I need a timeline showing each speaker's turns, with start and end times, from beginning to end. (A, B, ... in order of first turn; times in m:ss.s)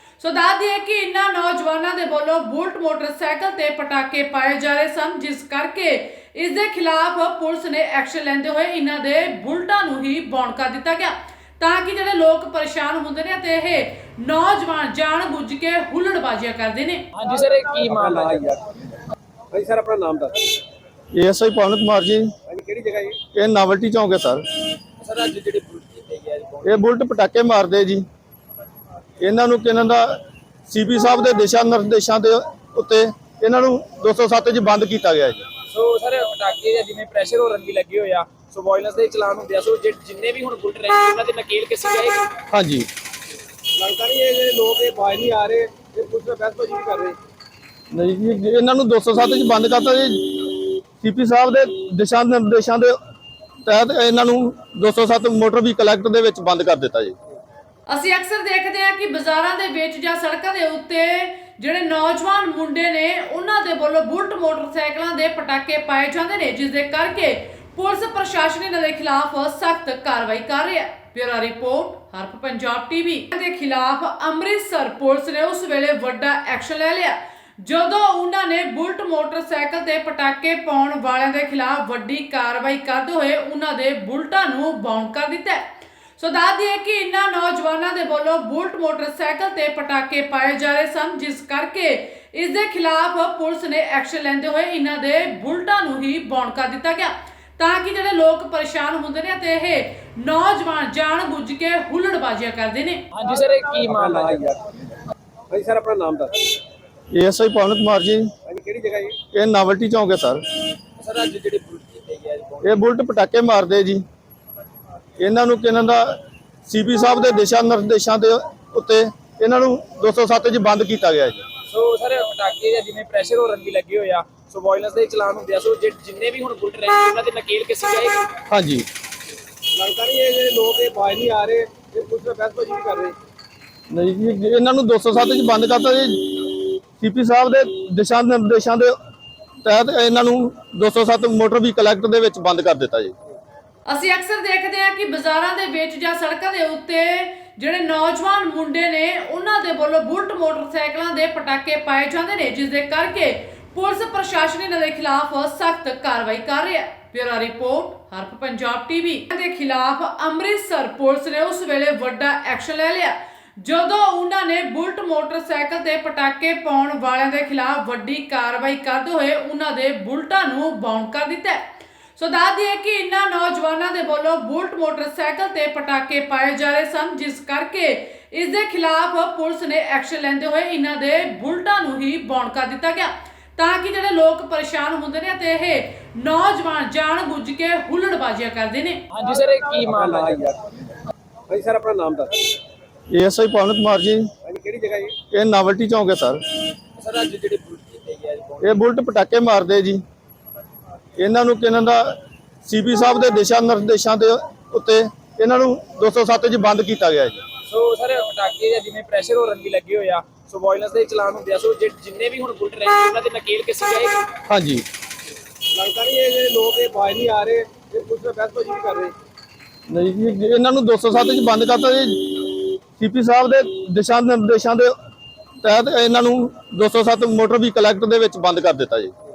0:00.2-0:17.1 A
0:17.1-0:18.5 B
0:17.9-0:18.6 C
0:19.5-0:20.5 C
0:21.1-0:22.3 D
0:22.5-0:23.2 C
0:23.3-0:24.4 D
0:25.0-0:26.8 B
0:26.6-0:28.0 D
0:29.2-0:35.4 D
0:35.7-0:42.3 B
0:42.5-0:42.9 D
0:43.8-0:47.2 C
0:47.9-0:53.0 D
0:53.6-0:57.1 D
0:57.9-1:25.6 A
1:26.2-1:43.1 A
1:43.1-1:44.5 B
1:43.9-1:44.6 C
1:45.5-1:46.5 C
1:47.1-1:48.3 D
1:48.5-1:49.2 C
1:49.3-1:50.4 D
1:51.0-1:52.8 B
1:52.6-1:54.0 D
1:55.2-2:01.4 D
2:01.7-2:08.3 B
2:08.5-2:08.8 D
2:09.7-2:13.1 C
2:13.9-2:18.9 D
2:19.6-2:23.1 D
2:23.9-2:51.6 A
2:52.2-3:09.0 A
3:09.1-3:10.5 B
3:09.9-3:10.6 C
3:11.5-3:12.4 C
3:13.1-3:14.3 D
3:14.4-3:15.2 C
3:15.3-3:16.4 D
3:17.0-3:18.8 B
3:18.6-3:20.0 D
3:21.2-3:27.4 D
3:27.7-3:34.3 B
3:34.5-3:34.8 D
3:35.7-3:39.1 C
3:39.9-3:44.9 D
3:45.6-3:49.1 D